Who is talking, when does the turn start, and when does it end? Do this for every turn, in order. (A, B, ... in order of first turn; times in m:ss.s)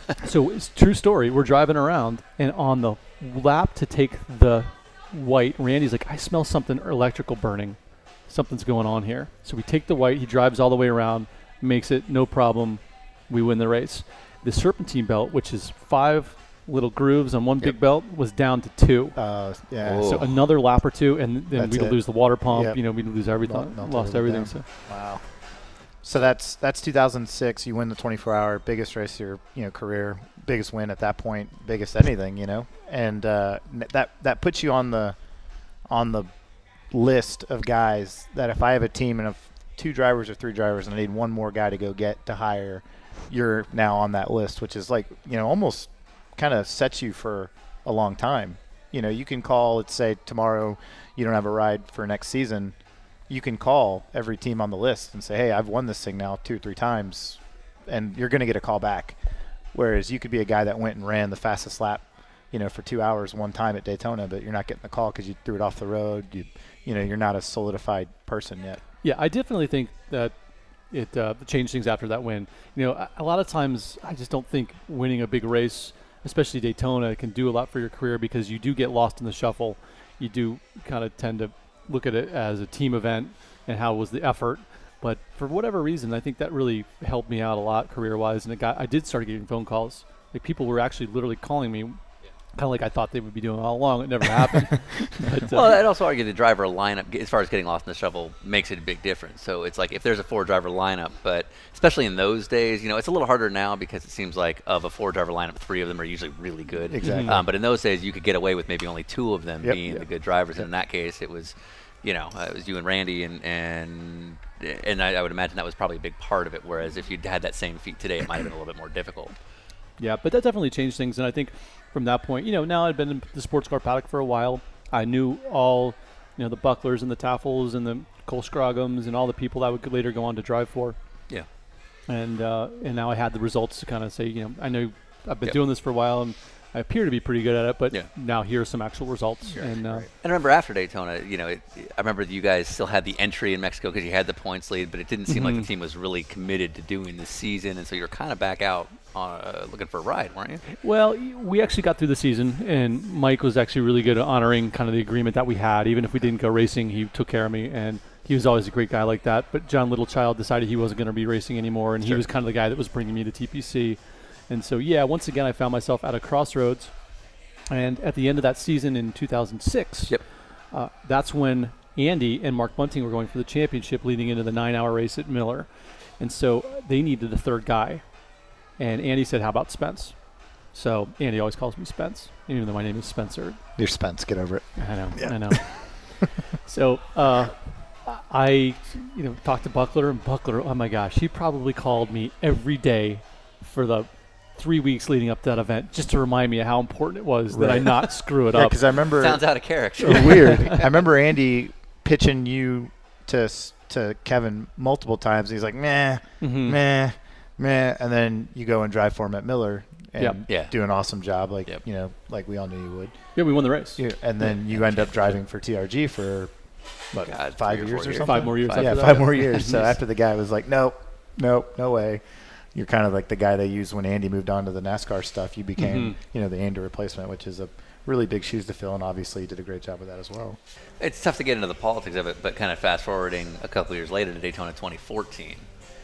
0:00.2-0:19.2 A
0:19.2-0:20.2 B
0:19.8-0:20.4 C
0:20.0-0:24.7 A
0:21.5-0:35.2 B
0:35.9-0:36.3 B
0:36.9-0:52.8 B
0:53.3-0:59.2 B
0:59.7-1:08.8 B
1:09.0-1:10.4 A
1:10.9-1:32.0 A
1:32.5-1:35.8 A
1:35.4-1:59.4 C
1:46.9-1:47.4 B
1:47.0-1:47.4 A
1:49.6-1:50.7 B
2:00.0-2:11.0 A
2:12.1-2:20.1 A
2:19.5-2:20.1 B
2:20.2-2:30.6 C
2:25.3-2:25.7 A
2:30.7-2:47.2 A
2:47.7-3:03.6 A
3:03.8-3:06.0 B
3:04.8-3:18.8 A
3:17.5-3:50.6 B
3:19.0-3:20.8 C
3:26.4-3:26.8 A
3:30.5-3:30.7 C
3:33.4-3:34.2 A
3:34.7-3:35.4 C
3:37.2-3:39.6 C
3:38.2-3:39.9 A
3:45.8-3:46.2 A
3:51.0-3:55.7 C